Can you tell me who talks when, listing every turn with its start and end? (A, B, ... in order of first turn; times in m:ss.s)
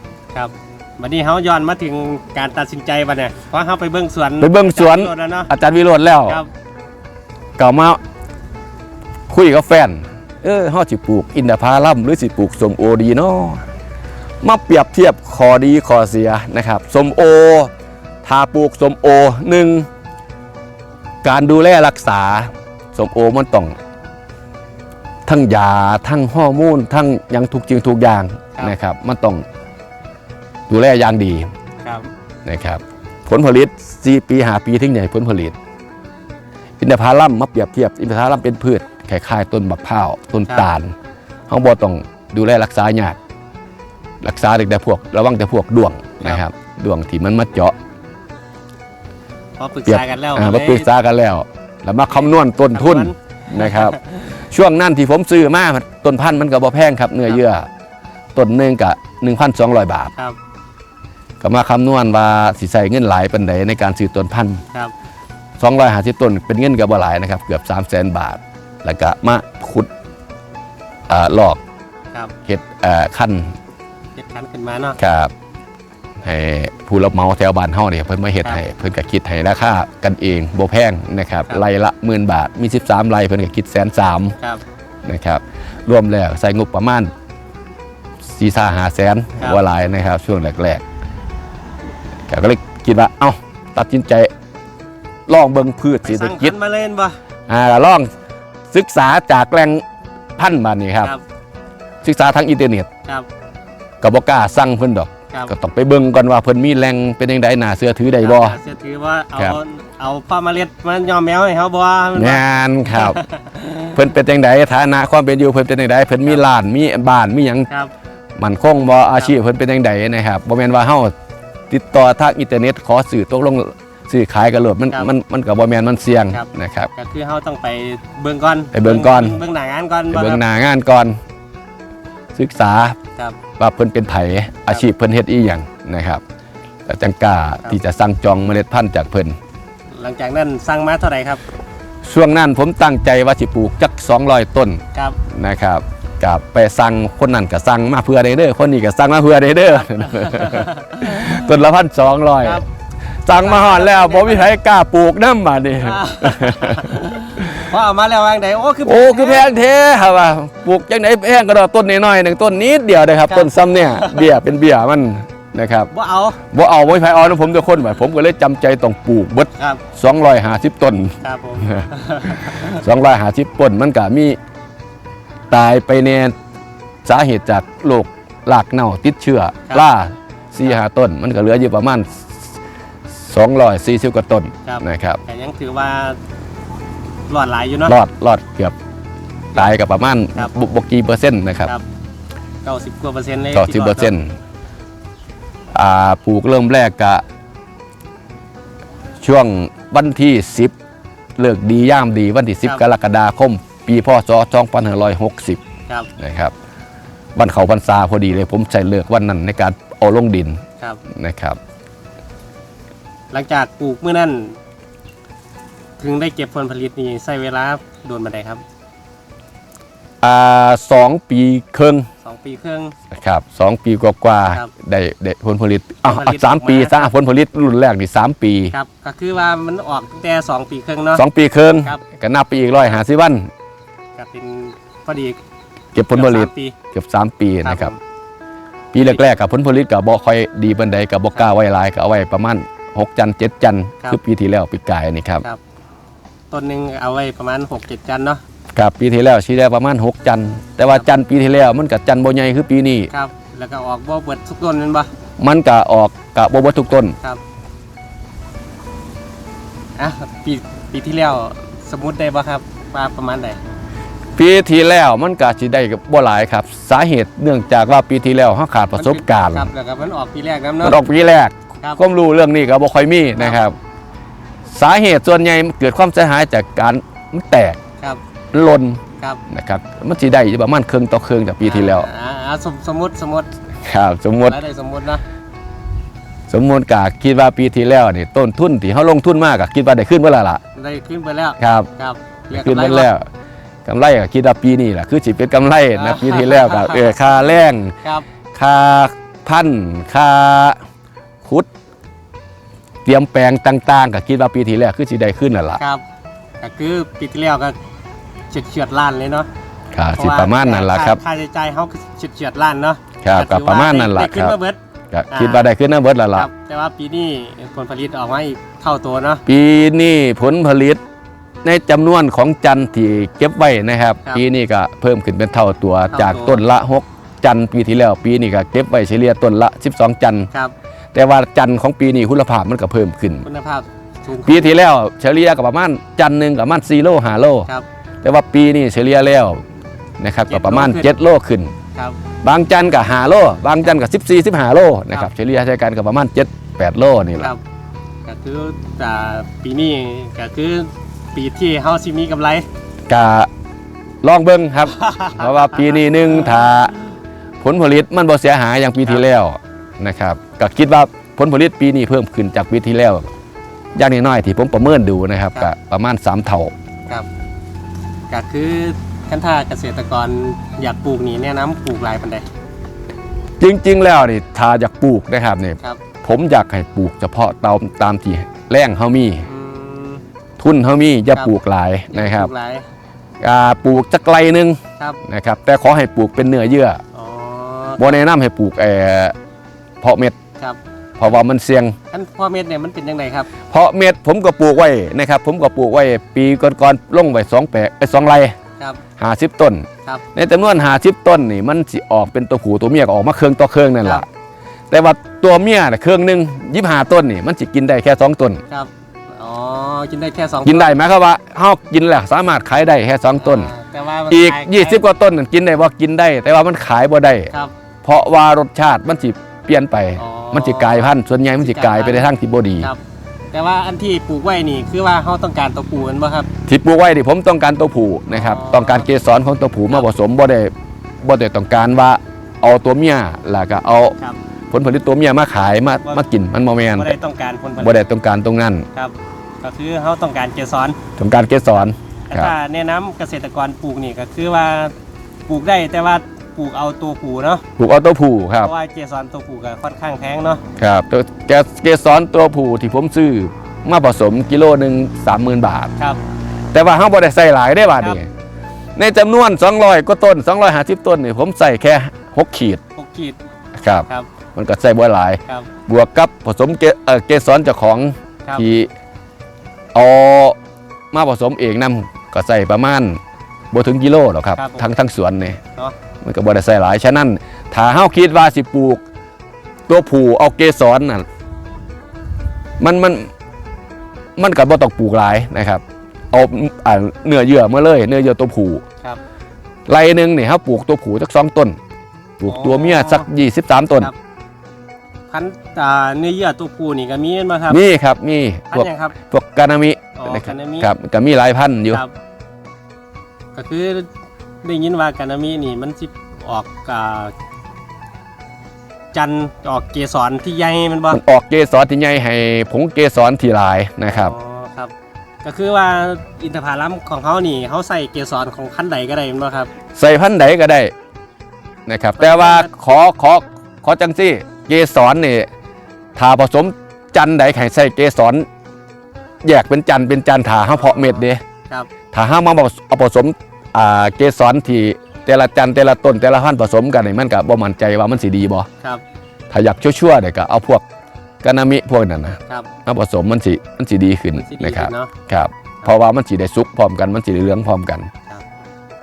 0:00.3-0:05.5 A
0:04.4-0:06.4 B
0:07.6-0:08.0 B
0:09.3-0:13.6 B
0:14.4-0:17.7 B
0:18.2-0:19.9 B
0:21.2-0:23.8 B
0:25.3-0:29.4 B
0:30.7-0:31.5 B
0:31.8-0:32.1 A
0:32.4-0:35.6 B
0:36.8-0:40.9 B
0:41.5-0:43.2 B
0:44.2-0:47.8 B
0:49.6-0:50.9 A
0:49.9-0:57.7 B
0:52.1-0:54.2 A
0:58.4-1:00.1 B
1:01.4-1:04.6 B
1:05.6-1:09.9 B
1:11.1-1:11.6 B
1:12.4-1:13.6 B
1:14.2-1:15.0 A
1:15.0-1:15.3 B
1:16.2-1:24.4 B
1:25.0-1:27.1 B
1:28.2-1:30.8 B
1:32.3-1:34.3 B
1:35.3-1:36.6 B
1:36.0-1:37.2 A
1:37.5-1:38.1 B
1:38.7-1:39.8 B
1:40.4-1:41.1 B
1:42.0-1:42.9 B
1:44.0-1:48.6 B
1:48.2-1:54.0 A
1:52.2-1:53.2 B
1:53.9-1:57.7 B
1:58.4-2:01.1 B
2:01.7-2:06.9 B
2:06.3-2:10.4 A
2:08.7-2:09.4 B
2:10.1-2:11.2 B
2:12.4-2:13.0 B
2:13.6-2:16.2 B
2:16.9-2:19.4 B
2:19.9-2:21.4 A
2:22.0-2:32.6 B
2:29.8-2:31.4 A
2:33.2-2:37.6 B
2:33.3-2:34.5 A
2:35.8-2:39.6 A
2:38.8-2:45.9 B
2:43.2-2:44.4 A
2:45.9-2:46.4 A
2:46.4-2:54.4 B
2:49.5-2:49.8 A
2:51.2-2:52.8 A
2:55.5-2:56.4 B
2:57.0-3:02.6 B
3:03.3-3:05.2 B
3:04.6-3:06.2 A
3:07.3-3:08.0 A
3:07.9-3:08.8 B
3:09.5-3:11.7 B
3:12.6-3:14.1 A
3:13.5-3:14.4 B
3:15.7-3:17.2 B
3:19.2-3:20.8 B
3:21.4-3:25.6 B
3:26.2-3:26.5 B
3:27.4-3:31.6 B
3:33.3-3:34.6 A
3:36.0-3:38.6 A
3:40.2-3:42.1 B
3:42.2-3:43.0 A
3:43.1-3:48.7 B
3:46.1-3:47.1 A
3:48.7-3:51.2 A
3:51.1-3:53.5 B
3:54.2-3:55.4 A
3:55.9-3:57.9 B
3:56.1-3:56.8 A
3:57.6-3:58.0 A
3:58.9-4:05.4 B
4:06.5-4:08.4 A
4:08.8-4:13.1 B
4:13.1-4:15.1 A
4:15.4-4:17.2 B
4:20.0-4:23.6 A
4:24.4-4:29.7 B
4:28.9-4:31.0 A
4:30.8-4:33.8 B
4:34.7-4:37.8 B
4:38.5-4:42.1 B
4:41.6-4:43.5 A
4:43.8-4:44.6 B
4:44.5-4:45.2 A
4:46.5-4:50.6 B
4:50.8-4:53.1 A
4:51.6-4:51.9 B
4:52.5-4:53.3 B
4:53.8-4:58.0 B
4:56.0-4:57.2 A
4:58.5-5:00.8 B
5:01.4-5:01.7 B
5:03.0-5:05.8 B
5:05.8-5:06.0 A
5:06.6-5:07.8 A
5:08.5-5:09.5 A
5:09.9-5:11.2 B
5:10.2-5:14.8 A
5:13.2-5:14.6 B
5:15.1-5:16.5 B
5:15.3-5:15.6 A
5:16.3-5:19.4 A
5:19.5-5:21.0 B
5:21.6-5:30.5 B
5:26.1-5:26.6 A
5:31.1-5:33.4 B
5:33.4-5:34.7 A
5:34.4-5:37.7 B
5:38.2-5:39.6 B
5:40.2-5:41.7 B
5:40.5-5:41.1 A
5:42.4-5:47.5 B
5:48.2-5:52.7 A
5:53.1-5:53.5 B
5:54.2-5:56.9 B
5:54.9-5:55.9 A
5:57.6-6:03.3 B
6:04.0-6:06.7 B
6:08.3-6:12.5 A
6:13.6-6:19.5 B
6:19.4-6:20.2 A
6:20.6-6:22.5 B
6:22.1-6:22.8 A
6:23.4-6:27.0 B
6:27.1-6:28.2 A
6:28.0-6:29.4 B
6:30.0-6:30.4 B
6:31.2-6:32.0 B
6:32.1-6:33.5 A
6:33.6-6:38.6 B
6:39.2-6:44.3 B
6:44.9-6:48.6 B
6:48.7-6:50.9 A
6:50.6-6:53.7 B
6:53.4-6:55.0 A
6:54.3-6:57.5 B
6:58.0-7:02.9 B
7:00.2-7:02.3 A
7:03.5-7:06.5 A
7:06.7-7:14.2 B
7:08.3-7:09.1 A
7:14.7-7:17.2 B
7:17.0-7:18.0 A
7:17.8-7:18.9 B
7:18.9-7:21.0 A
7:21.2-7:22.5 B
7:22.3-7:25.0 A
7:25.5-7:27.6 A
7:27.8-7:28.7 B
7:28.6-7:30.6 A
7:30.8-7:35.9 B
7:36.7-7:38.3 B
7:39.0-7:42.8 B
7:43.0-7:43.4 A
7:43.8-7:48.9 B
7:49.9-7:50.6 B
7:51.1-7:53.2 B
7:53.7-7:55.6 B
7:54.6-7:54.9 A
7:56.2-7:59.0 B
7:59.9-8:01.2 B
8:02.8-8:03.3 B
8:04.4-8:08.8 B
8:09.9-8:11.8 B
8:12.4-8:14.1 B
8:12.5-8:13.2 A
8:15.3-8:17.8 A
8:17.7-8:22.0 B
8:18.7-8:19.2 A
8:20.2-8:20.9 A
8:23.6-8:24.1 A
8:24.6-8:27.3 A
8:29.1-8:31.2 A
8:31.1-8:34.4 B
8:34.1-8:34.9 A
8:35.4-8:39.7 A
8:40.0-8:40.9 B
8:41.9-8:45.5 B
8:42.2-8:42.7 A
8:46.2-8:48.5 B
8:49.4-8:51.4 B
8:50.8-8:51.9 A
8:52.1-8:58.7 B
8:59.5-9:00.8 B
9:01.4-9:08.1 B
9:04.3-9:05.1 A